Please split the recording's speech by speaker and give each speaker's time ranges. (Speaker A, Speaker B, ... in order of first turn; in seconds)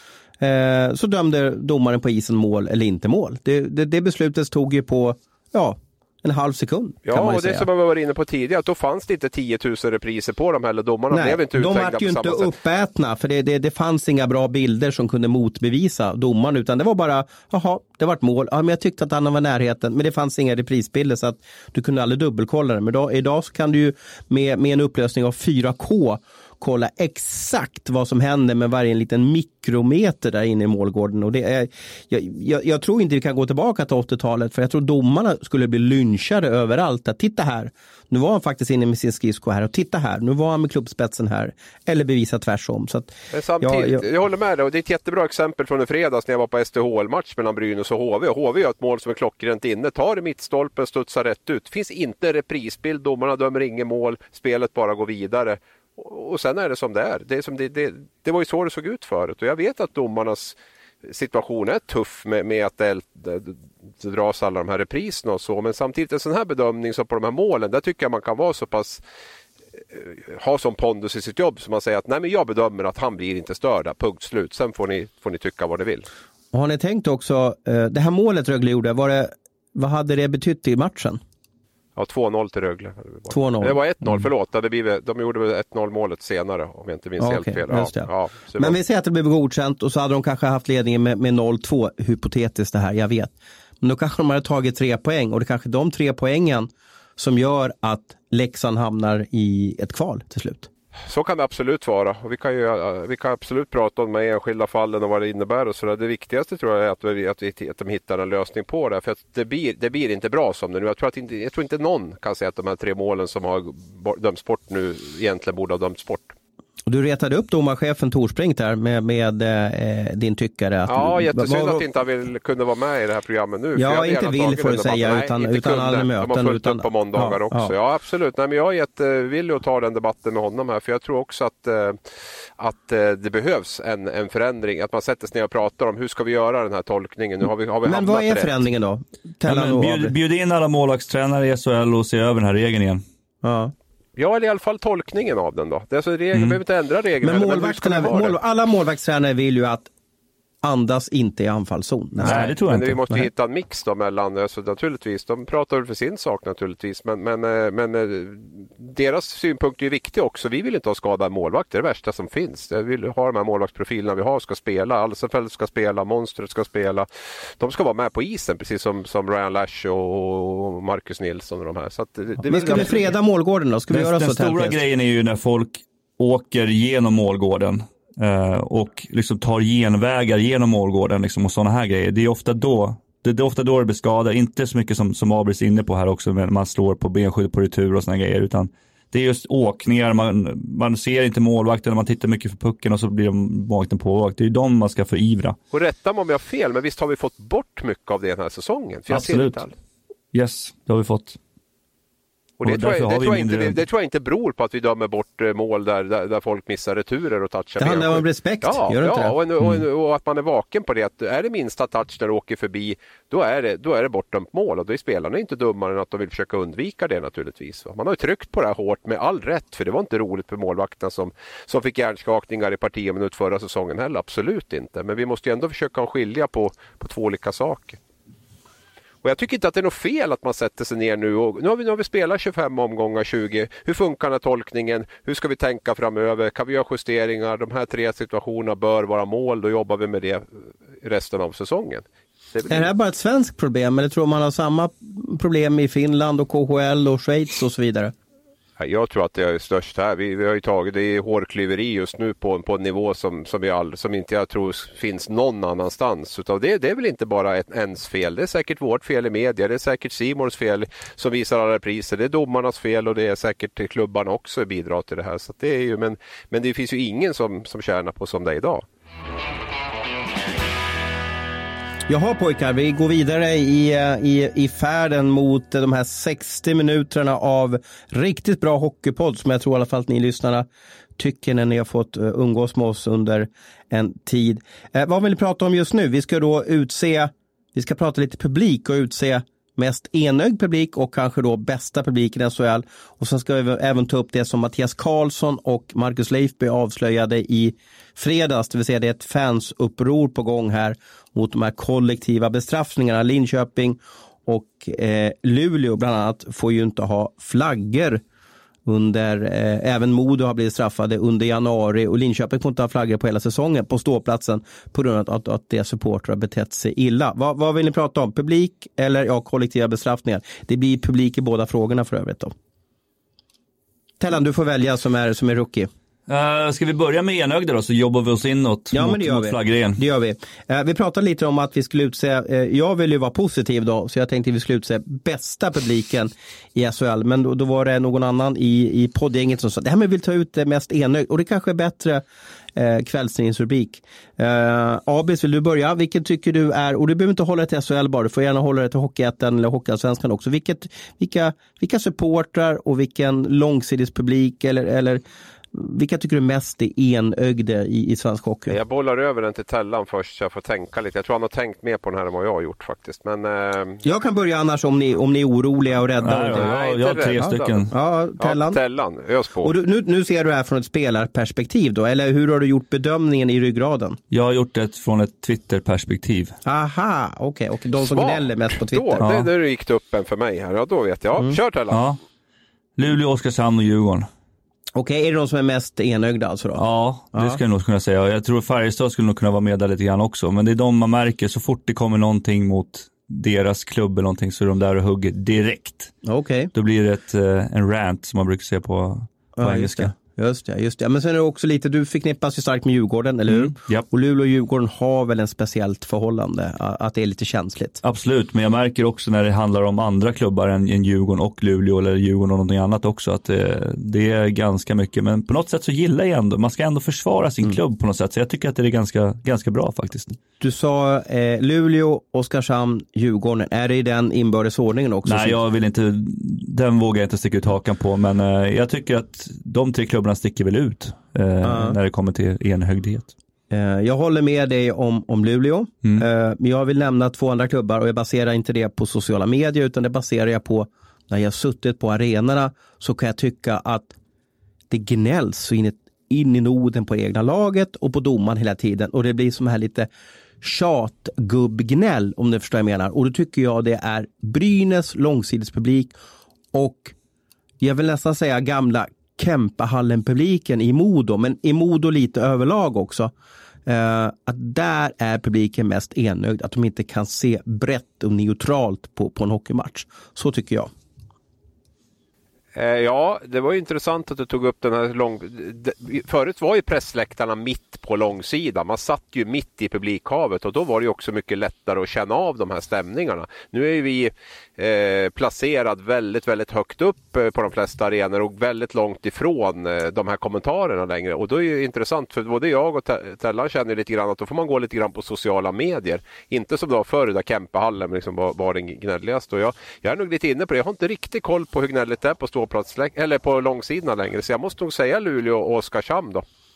Speaker A: 0.4-7.7, 11.1-44.0, 76.5-81.2, 83.3-83.8, 87.2-100.7, 116.8-121.8, 123.8-127.7, 137.8-140.1, 143.4-143.7, 147.2-149.9, 150.6-152.5, 172.4-174.8, 207.8-209.4, 242.7-248.1, 272.1-280.6, 281.2-308.2, 308.9-322.5, 324.2-325.9, 328.9-342.2, 342.8-355.2, 355.7-358.8, 364.0-366.7, 367.4-368.8, 369.6-374.2, 376.6-379.2, 384.9-386.8, 387.3-387.6, 396.2-396.7, 399.6-408.0, 420.6-425.6, 431.6-432.0, 433.7-444.1, 444.9-450.1, 450.6-456.1, 456.7-457.1, 457.8-463.3, 463.9-470.9
Speaker B: 7.0-12.5, 43.3-69.0, 69.9-76.1, 82.0-88.7, 101.1-116.3, 120.9-132.0, 132.6-138.6, 144.2-148.3, 152.2-167.1, 167.6-173.1, 195.7-199.7, 202.6-228.0, 229.2-242.9, 248.8-268.8, 358.7-364.0, 366.5-369.7, 378.0-382.0, 472.7-506.4
Speaker C: 139.4-143.0, 146.3-146.6, 152.2-153.3, 173.9-195.6, 199.1-199.6, 200.3-201.4, 202.6-203.8, 326.3-330.0, 366.2-367.9, 374.3-376.5, 379.2-379.5, 381.9-382.2, 383.0-384.3, 386.8-396.1, 396.7-400.1, 403.5-404.1, 408.0-420.3, 425.2-433.3